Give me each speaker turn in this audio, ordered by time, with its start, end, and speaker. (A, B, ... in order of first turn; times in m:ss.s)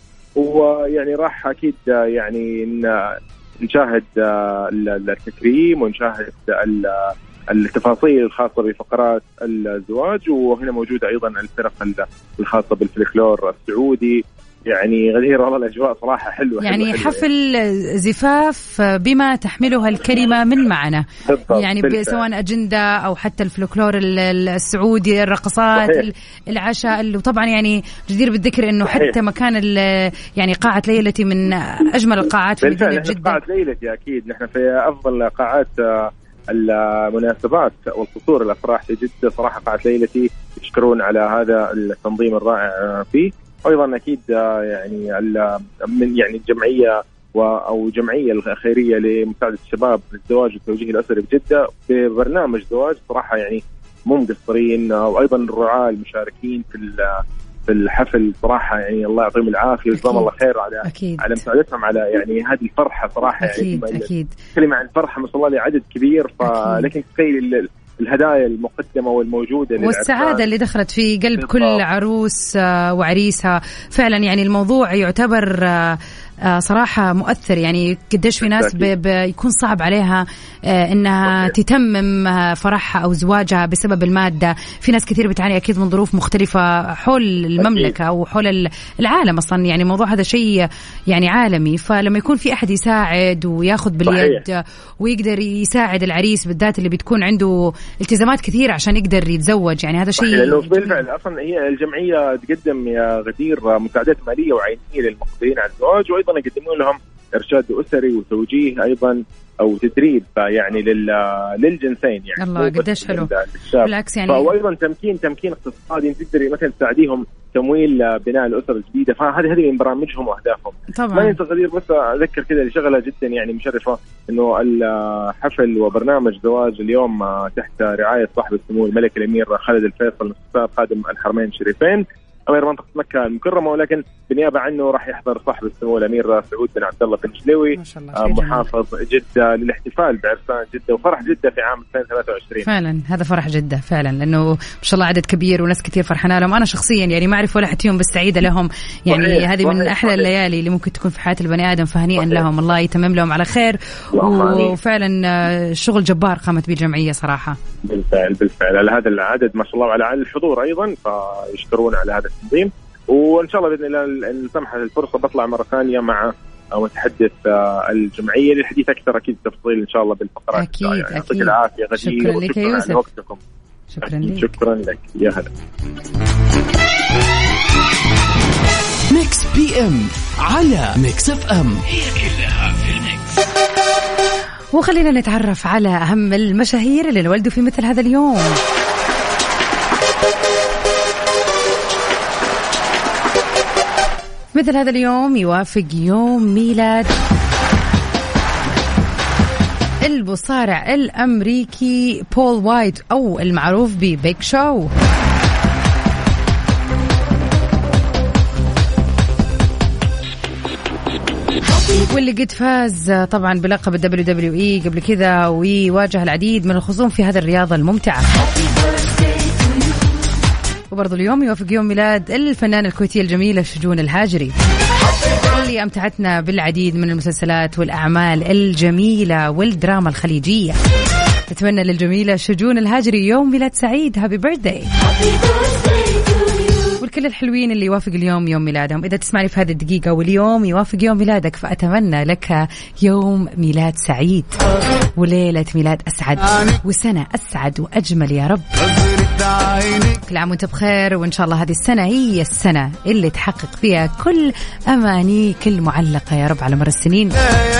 0:00.4-0:17.2 A
0:16.6-0:33.4 B
0:21.2-0:22.2 A
0:25.8-0:26.0 A
0:32.6-1:10.4 A
1:00.0-1:00.3 B
1:00.8-1:01.4 B
1:03.4-1:04.3 B
1:06.4-1:06.9 B
1:09.8-1:41.0 B
1:11.4-1:11.8 A
1:18.4-1:18.9 A
1:27.6-1:27.9 A
1:34.1-1:34.4 A
1:40.2-2:22.7 A
1:52.4-1:54.5 B
2:00.9-2:01.4 B
2:17.7-2:18.7 B
2:22.6-2:37.6 B
2:29.1-2:30.3 A
2:32.2-2:32.4 A
2:34.1-2:34.8 A
2:37.8-2:53.4 A
2:50.5-2:53.0 B
2:53.9-2:54.5 B
2:54.0-2:55.5 A
2:59.1-3:03.3 C
3:04.7-3:08.6 B
3:14.5-3:17.1 B
3:20.0-3:24.9 B
3:32.0-3:38.2 B
3:40.9-3:44.5 B
3:45.4-3:50.8 B
3:51.5-3:54.9 B
3:57.0-4:04.6 B
4:05.2-4:08.7 B
4:10.1-4:17.3 B